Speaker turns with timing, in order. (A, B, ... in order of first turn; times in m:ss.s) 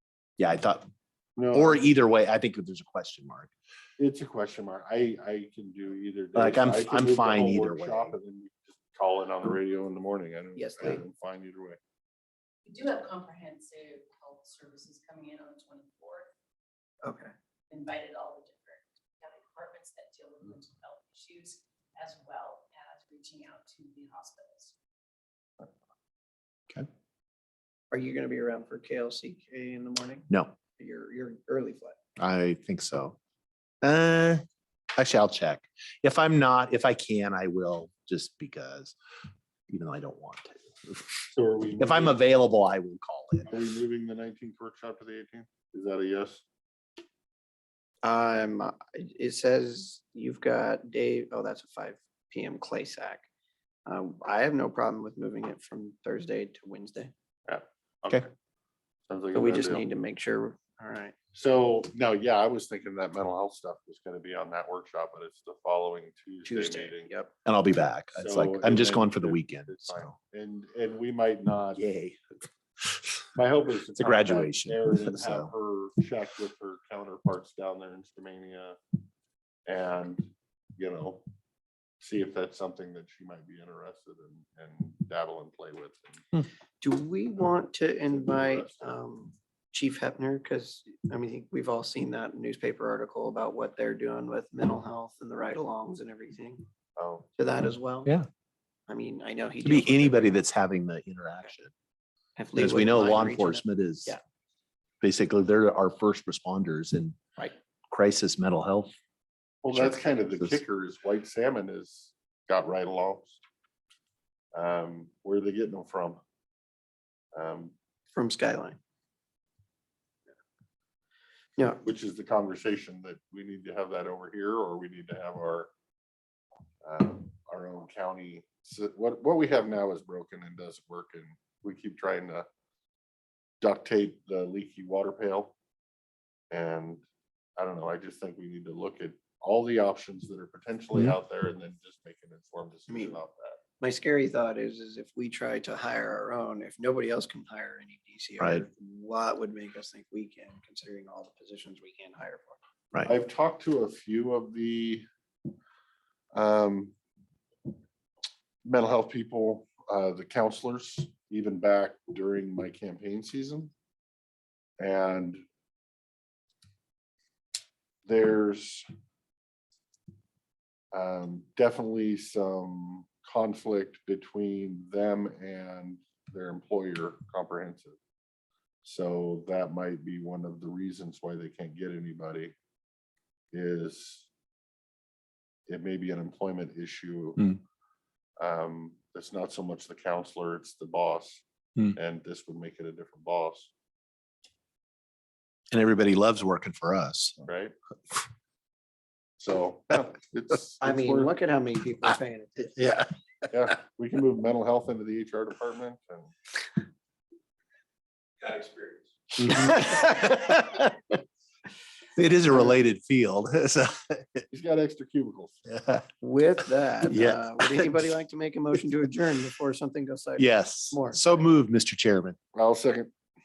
0:00.4-0:00.9 A
0:01.4-0:01.8 B
0:01.5-0:03.5 A
0:04.0-0:11.8 B
0:06.3-0:08.1 A
0:10.6-0:11.0 C
0:12.6-0:16.3 D
0:17.0-0:17.3 C
0:17.7-0:24.7 D
0:27.9-0:32.0 C
0:30.3-0:30.6 A
0:32.2-0:33.2 A
0:33.8-0:34.4 A
0:35.0-0:39.0 A
0:39.7-0:41.2 A
0:41.3-0:42.2 B
0:41.8-0:43.6 A
0:43.5-0:46.4 B
0:48.0-0:53.2 C
0:53.9-0:57.1 C
0:57.4-0:58.3 B
0:59.1-0:59.8 B
0:59.3-1:01.2 C
1:01.3-1:07.1 B
1:06.4-1:07.3 C
1:07.4-1:10.1 A
1:08.1-1:11.8 B
1:11.8-1:12.2 A
1:13.3-1:18.8 B
1:13.9-1:15.5 A
1:19.7-1:21.2 B
1:22.0-1:26.2 B
1:26.8-1:36.6 C
1:28.1-1:28.9 B
1:37.0-1:37.3 B
1:37.4-1:38.1 C
1:38.9-1:40.4 C
1:39.6-1:41.7 A
1:42.4-1:44.2 C
1:42.6-1:44.2 A
1:45.0-1:47.2 A
1:47.9-1:48.9 A
1:49.6-1:53.4 B
1:49.7-1:50.6 A
1:54.5-1:56.2 B
1:57.3-1:57.7 B
1:58.1-1:58.8 C
2:01.8-2:05.7 B
2:06.8-2:12.4 B
2:13.6-2:15.5 B
2:16.5-2:17.0 B
2:17.6-2:23.6 B
2:22.9-2:23.2 C
2:23.8-2:32.6 C
2:28.4-2:28.7 A
2:33.0-2:35.1 B
2:36.3-2:37.0 B
2:38.6-2:43.7 B
2:44.8-2:45.4 B
2:48.0-2:48.9 B
2:50.9-2:58.0 B
2:58.8-3:02.5 B
3:03.5-3:04.3 B
3:05.7-3:07.5 B
3:08.4-3:13.7 B
3:15.7-3:17.4 A
3:17.4-3:17.7 B
3:19.4-3:21.3 B
3:20.8-3:22.9 C
3:23.5-3:26.3 B
3:28.4-3:29.1 B
3:29.4-3:30.9 A
3:29.7-3:30.0 C
3:32.1-3:34.4 A
3:34.5-3:35.6 B
3:35.7-3:36.0 A
3:36.2-3:41.5 C
3:37.0-3:38.1 A
3:40.4-3:42.4 A
3:42.5-3:43.1 B